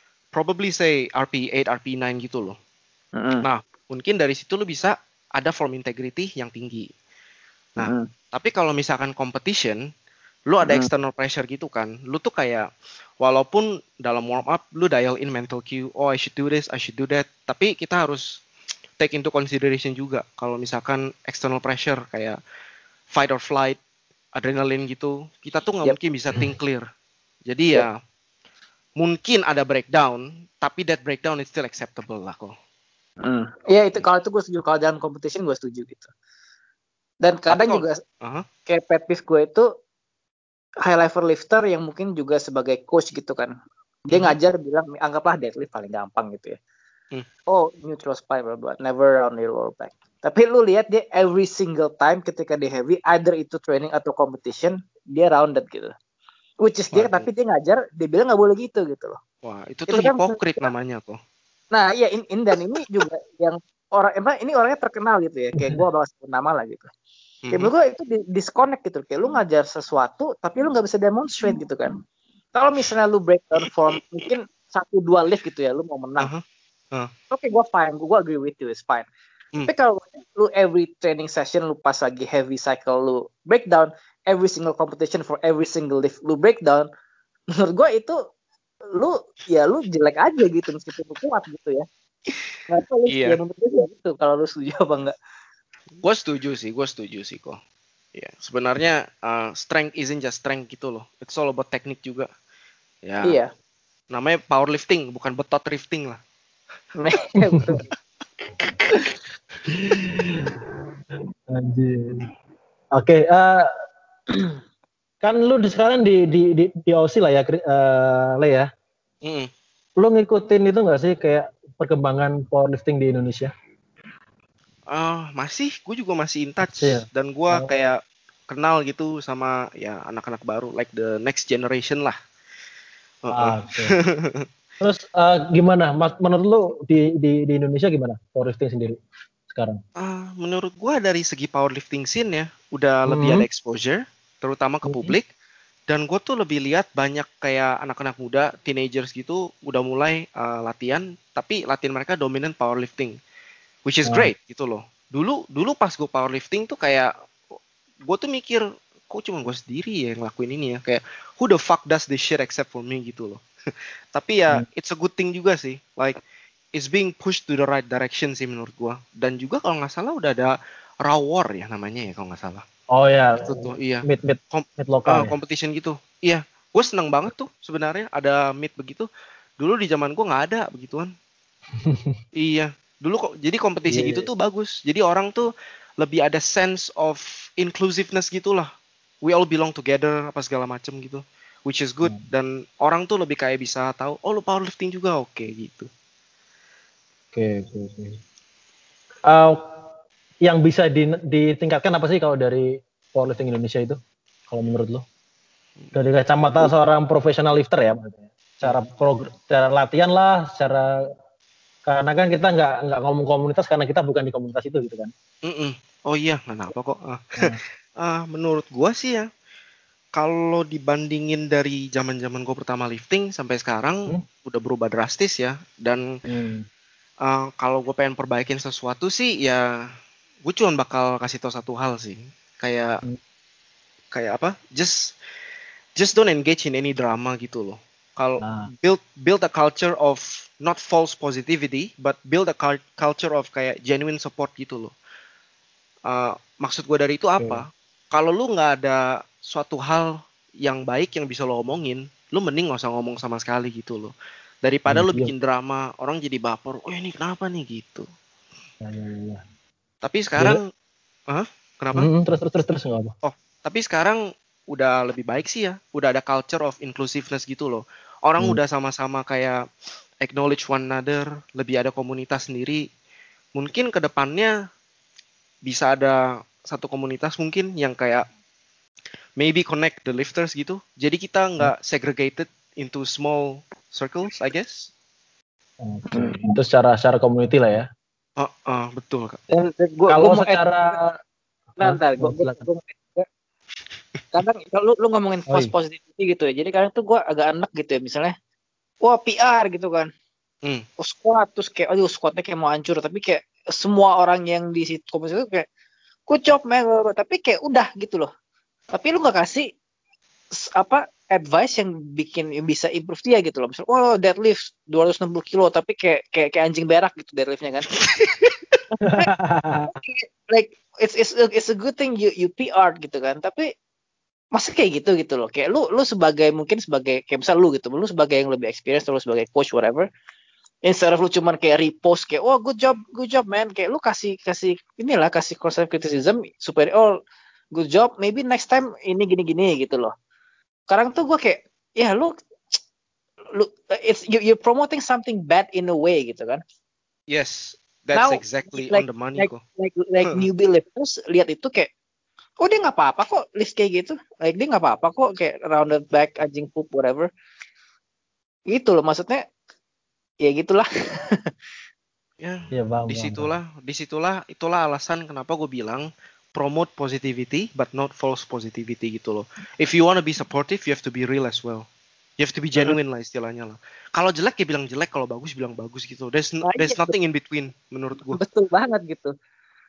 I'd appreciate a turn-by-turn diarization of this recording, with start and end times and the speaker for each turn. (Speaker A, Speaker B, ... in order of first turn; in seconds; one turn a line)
Speaker A: 0.3-2.5
Speaker B: 3.2-3.4
Speaker A: 3.4-6.9
Speaker A: 7.8-9.8
Speaker B: 7.8-8.1
Speaker A: 10.5-12.7
Speaker B: 10.6-10.9
Speaker A: 13.2-18.4
Speaker A: 19.0-22.4
Speaker A: 23.1-23.8
Speaker A: 24.4-26.8
Speaker A: 27.5-27.9
Speaker A: 29.0-32.5
Speaker B: 33.2-36.1
Speaker B: 37.2-38.0
Speaker A: 37.5-38.5
Speaker B: 38.7-39.6
Speaker B: 40.8-43.5
Speaker B: 44.1-46.5
Speaker B: 47.5-55.9
Speaker B: 56.6-59.2
Speaker A: 56.9-57.3
Speaker A: 59.4-61.2
Speaker B: 59.9-60.6
Speaker B: 61.7-66.9
Speaker A: 67.4-67.7
Speaker B: 67.5-71.9
Speaker B: 72.5-76.3
Speaker A: 76.2-77.1
Speaker B: 77.3-79.1
Speaker B: 79.6-86.9
Speaker B: 87.6-88.2
Speaker B: 88.9-91.8
Speaker B: 92.7-95.1
Speaker A: 93.1-93.4
Speaker A: 96.0-97.6
Speaker A: 98.1-102.3
Speaker A: 103.0-103.4
Speaker B: 103.2-103.5
Speaker A: 104.1-106.2
Speaker B: 107.0-107.9
Speaker C: 109.7-110.5
Speaker C: 111.5-112.3
Speaker C: 113.0-113.7
Speaker C: 115.2-118.7
Speaker A: 119.2-119.5
Speaker C: 120.0-123.5
Speaker A: 124.9-132.1
Speaker C: 126.6-127.9
Speaker A: 133.2-134.4
Speaker C: 133.3-134.0
Speaker C: 134.8-139.8
Speaker A: 140.0-145.3
Speaker C: 143.1-143.4
Speaker C: 144.9-145.2
Speaker A: 145.9-153.2
Speaker A: 153.8-157.1
Speaker A: 158.0-163.4
Speaker A: 164.1-166.2
Speaker A: 166.7-172.6
Speaker C: 172.9-175.3
Speaker A: 173.4-179.1
Speaker A: 179.6-181.1
Speaker C: 181.8-182.2
Speaker A: 182.3-185.5
Speaker C: 183.9-184.3
Speaker A: 186.0-188.7
Speaker A: 189.2-195.9
Speaker C: 197.3-198.2
Speaker C: 199.3-199.7
Speaker C: 200.4-204.0
Speaker C: 204.5-205.0
Speaker C: 205.9-210.9
Speaker C: 211.8-215.1
Speaker A: 215.4-219.3
Speaker A: 220.1-226.0
Speaker C: 226.2-226.7
Speaker A: 227.2-229.7
Speaker A: 230.4-233.0
Speaker A: 234.1-235.1
Speaker A: 235.9-244.9
Speaker C: 238.4-238.7
Speaker A: 246.1-258.1
Speaker C: 254.9-255.3
Speaker C: 258.8-259.4
Speaker A: 260.0-260.6
Speaker A: 261.3-262.1
Speaker C: 261.9-263.1
Speaker A: 263.2-269.6
Speaker A: 270.2-272.9
Speaker A: 273.5-274.5
Speaker A: 275.6-278.2
Speaker A: 279.4-284.9
Speaker C: 285.8-287.9
Speaker B: 286.1-286.4
Speaker A: 288.4-289.4
Speaker B: 289.5-291.0
Speaker C: 290.1-291.1
Speaker B: 291.8-293.2
Speaker C: 291.8-292.6
Speaker B: 294.3-298.3
Speaker B: 299.0-300.1
Speaker B: 301.0-305.6
Speaker B: 306.3-308.3
Speaker B: 308.9-309.7
Speaker B: 310.5-317.9
Speaker A: 317.9-318.7
Speaker B: 318.9-319.3
Speaker C: 319.0-319.9
Speaker B: 319.8-323.7
Speaker B: 324.5-330.1
Speaker B: 330.9-337.1
Speaker B: 337.7-340.1
Speaker B: 340.9-342.8
Speaker B: 343.5-346.6
Speaker A: 347.3-349.6
Speaker B: 348.1-351.9
Speaker B: 352.6-357.3
Speaker B: 358.7-359.4
Speaker B: 360.4-361.4
Speaker A: 362.4-371.9
Speaker C: 362.7-363.5
Speaker A: 372.4-378.4
Speaker B: 376.6-377.1
Speaker B: 378.3-379.3